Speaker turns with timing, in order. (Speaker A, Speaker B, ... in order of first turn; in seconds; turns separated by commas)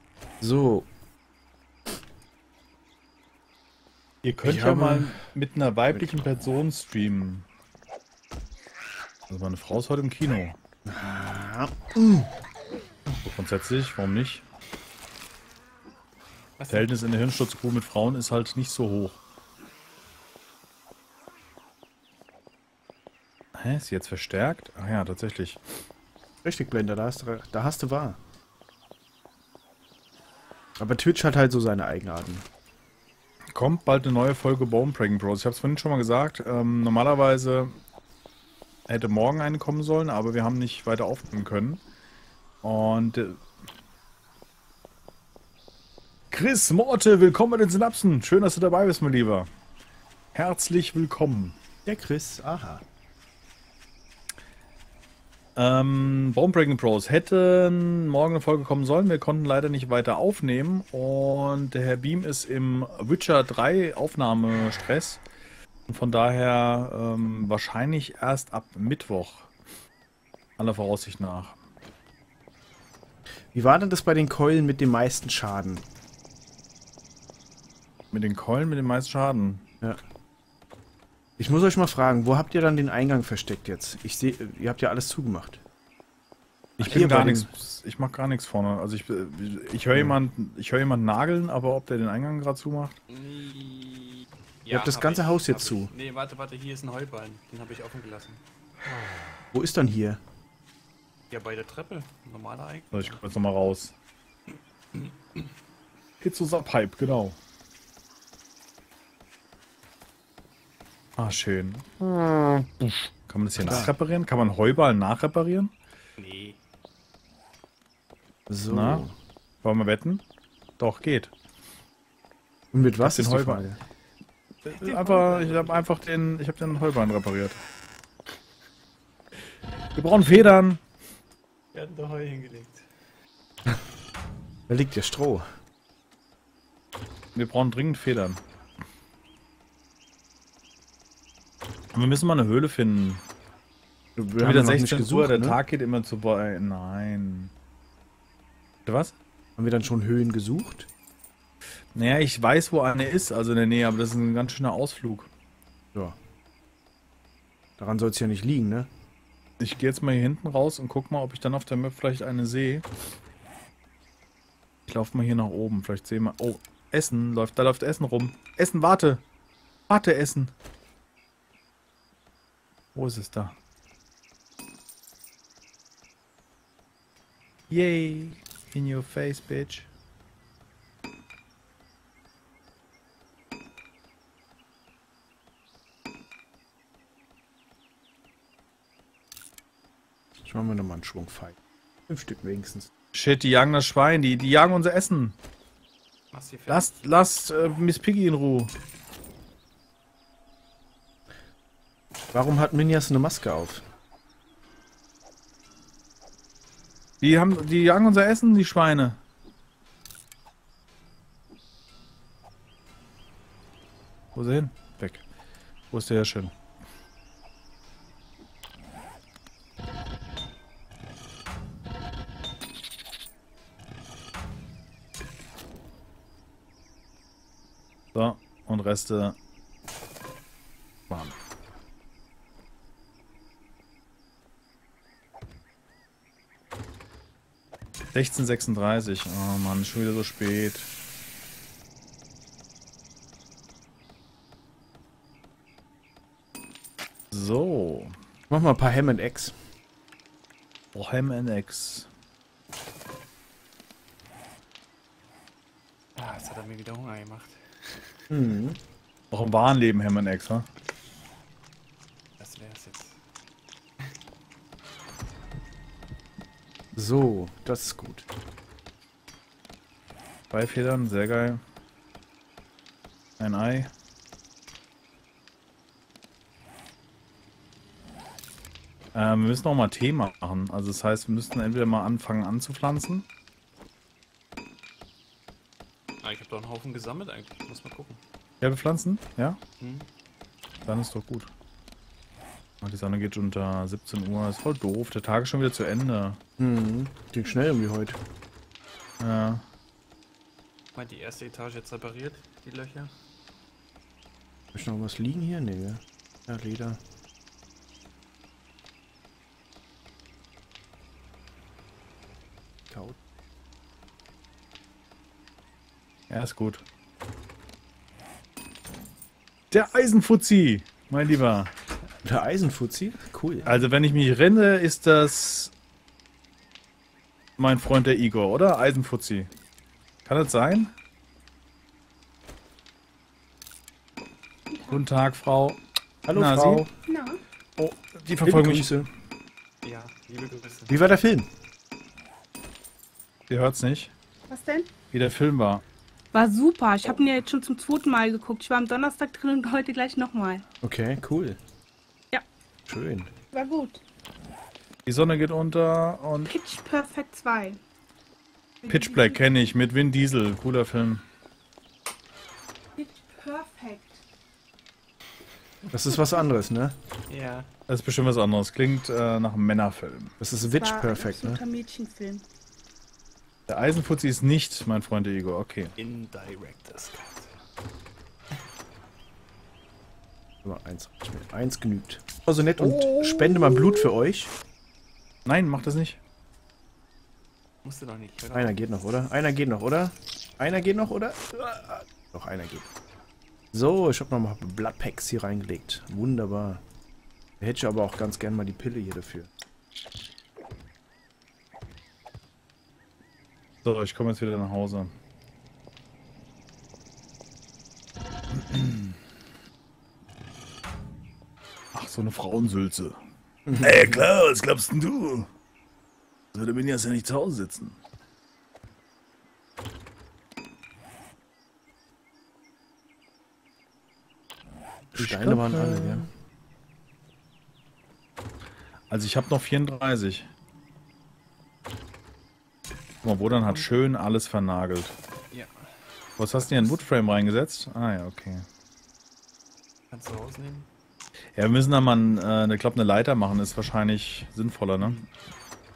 Speaker A: 0.4-0.9, Speaker B: 4.2-7.5, Speaker A: 4.4-5.2, Speaker B: 9.3-10.6, Speaker A: 10.8-12.3, Speaker B: 13.2-14.4, Speaker C: 16.6-16.9, Speaker B: 16.7-19.2, Speaker B: 23.5-25.6, Speaker A: 26.4-28.2, Speaker A: 30.8-32.5, Speaker B: 33.5-37.8, Speaker B: 38.9-41.8, Speaker B: 42.6-43.4, Speaker B: 46.3-49.5, Speaker B: 50.3-51.6, Speaker A: 51.9-52.8, Speaker B: 55.6-65.2, Speaker B: 65.9-69.5, Speaker B: 70.6-71.6, Speaker A: 73.5-75.9, Speaker B: 78.1-79.7, Speaker A: 81.4-85.6, Speaker A: 86.8-87.5, Speaker B: 86.8-93.0, Speaker C: 93.1-98.4, Speaker A: 94.7-95.9, Speaker A: 99.5-100.2, Speaker C: 101.3-103.2, Speaker B: 102.9-103.9, Speaker C: 105.0-105.4, Speaker B: 106.2-107.4, Speaker B: 111.2-115.7, Speaker A: 113.6-113.9, Speaker C: 116.2-116.6, Speaker A: 118.5-119.1, Speaker B: 118.7-119.1, Speaker B: 119.6-120.2, Speaker B: 120.8-121.3, Speaker A: 122.7-123.8, Speaker B: 123.0-123.7, Speaker C: 124.6-125.8, Speaker B: 124.8-127.6, Speaker B: 129.9-130.8, Speaker C: 131.7-132.8, Speaker A: 134.7-135.4, Speaker B: 137.3-138.4, Speaker B: 141.9-143.2, Speaker A: 144.2-145.6, Speaker B: 144.4-147.5, Speaker B: 148.9-149.1, Speaker A: 149.6-150.9, Speaker B: 151.9-155.3, Speaker A: 157.8-158.9, Speaker B: 159.6-162.9, Speaker B: 164.9-169.2, Speaker B: 169.9-170.5, Speaker B: 172.9-173.6, Speaker B: 177.7-179.9, Speaker A: 190.4-191.6, Speaker A: 192.1-192.9, Speaker B: 193.1-195.4, Speaker C: 196.3-197.1, Speaker B: 196.7-198.7, Speaker A: 202.3-203.8, Speaker B: 207.2-209.2, Speaker B: 214.3-215.2, Speaker B: 215.9-216.5, Speaker B: 228.1-229.4, Speaker B: 231.1-231.4, Speaker B: 238.1-240.9, Speaker B: 247.3-248.2, Speaker A: 248.5-249.6, Speaker B: 250.9-252.1, Speaker C: 256.2-258.3, Speaker A: 258.3-258.8, Speaker B: 259.3-260.7, Speaker C: 262.4-263.2, Speaker A: 266.9-268.3, Speaker B: 270.5-271.6, Speaker B: 273.4-273.9, Speaker B: 279.1-283.2, Speaker C: 286.2-288.2, Speaker B: 288.6-289.6, Speaker C: 289.8-290.1, Speaker B: 290.9-291.5, Speaker B: 292.8-296.4, Speaker A: 296.6-298.2, Speaker B: 299.2-299.6, Speaker C: 300.9-303.1, Speaker A: 304.7-307.0, Speaker A: 312.9-313.2, Speaker B: 316.3-316.8, Speaker B: 319.7-321.7, Speaker A: 322.2-323.7, Speaker B: 323.7-325.7, Speaker B: 327.6-329.5, Speaker B: 330.3-330.9, Speaker D: 334.7-335.0, Speaker B: 334.9-335.8, Speaker A: 336.3-336.9, Speaker B: 336.3-336.9, Speaker D: 337.1-337.4, Speaker B: 337.8-339.0, Speaker A: 338.4-339.1, Speaker C: 339.8-340.9, Speaker A: 340.9-341.5, Speaker B: 343.5-344.1, Speaker D: 344.5-344.9, Speaker B: 345.1-345.8, Speaker D: 346.3-350.7, Speaker A: 350.8-351.6, Speaker A: 352.9-353.3, Speaker D: 353.5-354.0, Speaker B: 355.1-356.5, Speaker D: 356.5-357.8, Speaker D: 358.8-359.5, Speaker B: 358.9-361.2, Speaker D: 363.0-364.2, Speaker A: 365.9-366.9, Speaker C: 367.3-367.7, Speaker B: 367.9-370.3, Speaker A: 370.4-371.6, Speaker D: 370.6-372.4, Speaker B: 373.7-375.9, Speaker C: 376.0-377.5, Speaker A: 380.6-384.5, Speaker B: 382.8-384.1, Speaker B: 385.5-386.2, Speaker C: 387.8-388.8, Speaker A: 388.5-392.9, Speaker A: 393.7-396.8, Speaker A: 397.6-399.5, Speaker B: 403.8-405.1, Speaker B: 408.5-409.1, Speaker B: 411.9-413.2, Speaker A: 413.7-414.1, Speaker B: 413.8-415.5, Speaker B: 416.5-418.0, Speaker A: 425.1-426.3, Speaker B: 425.2-426.3, Speaker B: 429.1-430.5, Speaker B: 433.2-435.1, Speaker C: 433.4-433.9, Speaker C: 435.5-436.0, Speaker B: 436.4-438.7, Speaker C: 436.5-437.0, Speaker C: 440.1-440.9, Speaker B: 441.6-445.2